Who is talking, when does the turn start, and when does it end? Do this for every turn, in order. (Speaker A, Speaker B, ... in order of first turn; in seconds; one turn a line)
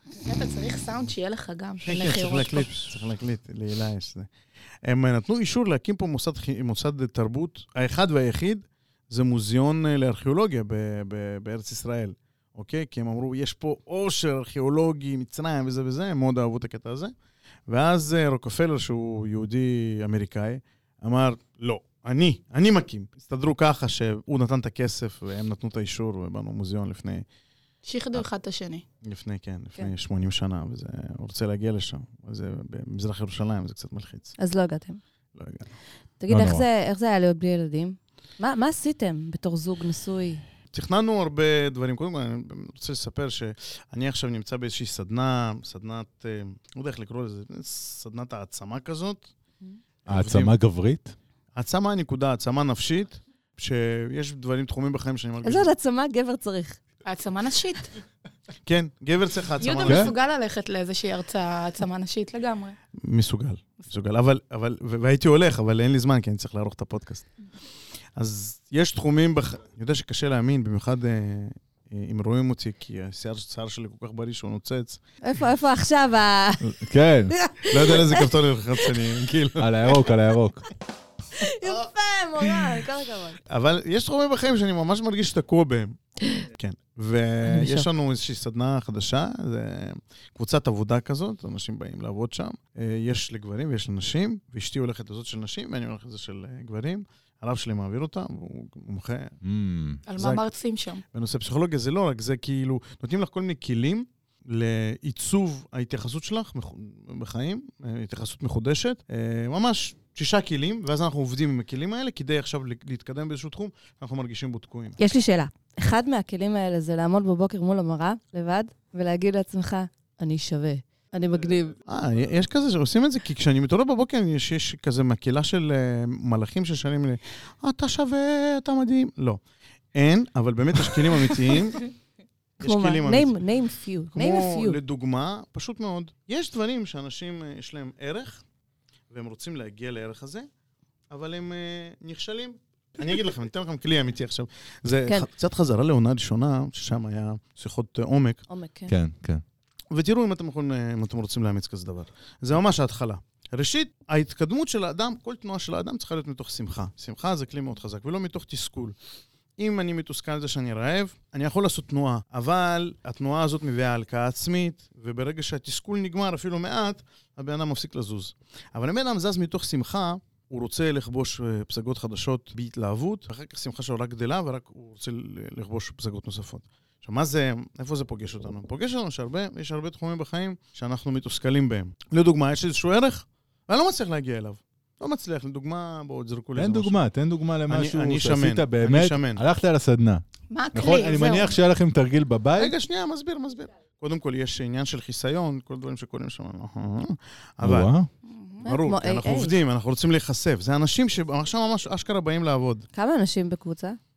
Speaker A: 0.2-2.7
Speaker B: 1.8-4.3
Speaker B: 4.8-17.1
Speaker B: 17.7-27.2
Speaker A: 27.9-28.8
Speaker B: 29.0-34.3
Speaker C: 34.4-35.0
Speaker B: 35.4-35.7
Speaker C: 36.2-40.4
Speaker D: 36.3-36.6
Speaker B: 40.7-49.3
Speaker B: 50.1-50.5
Speaker D: 50.1-51.1
Speaker B: 51.5-55.7
Speaker C: 55.4-56.8
Speaker A: 57.0-57.9
Speaker B: 58.6-60.1
Speaker A: 59.6-62.8
Speaker B: 63.0-67.3
Speaker B: 68.2-75.0
Speaker C: 75.2-76.8
Speaker D: 76.6-77.3
Speaker C: 77.3-78.3
Speaker B: 77.7-79.8
Speaker D: 79.6-80.7
Speaker C: 81.4-83.4
Speaker B: 83.5-86.0
Speaker B: 86.5-99.3
Speaker C: 87.5-87.9
Speaker D: 99.4-100.0
Speaker A: 100.1-101.0
Speaker B: 100.2-100.5
Speaker B: 101.1-115.0
Speaker C: 115.0-121.8
Speaker B: 121.9-129.4
Speaker B: 129.9-131.9
Speaker B: 132.6-133.3
Speaker C: 132.6-134.8
Speaker B: 134.1-138.4
Speaker B: 139.1-140.5
Speaker B: 141.1-148.4
Speaker C: 148.5-148.9
Speaker D: 148.9-149.4
Speaker B: 149.9-159.0
Speaker B: 159.6-187.0
Speaker D: 186.6-192.7
Speaker B: 187.7-189.4
Speaker A: 190.5-191.5
Speaker B: 192.6-197.9
Speaker D: 197.6-198.1
Speaker A: 198.2-198.7
Speaker C: 198.6-199.5
Speaker B: 198.6-202.9
Speaker C: 202.9-204.0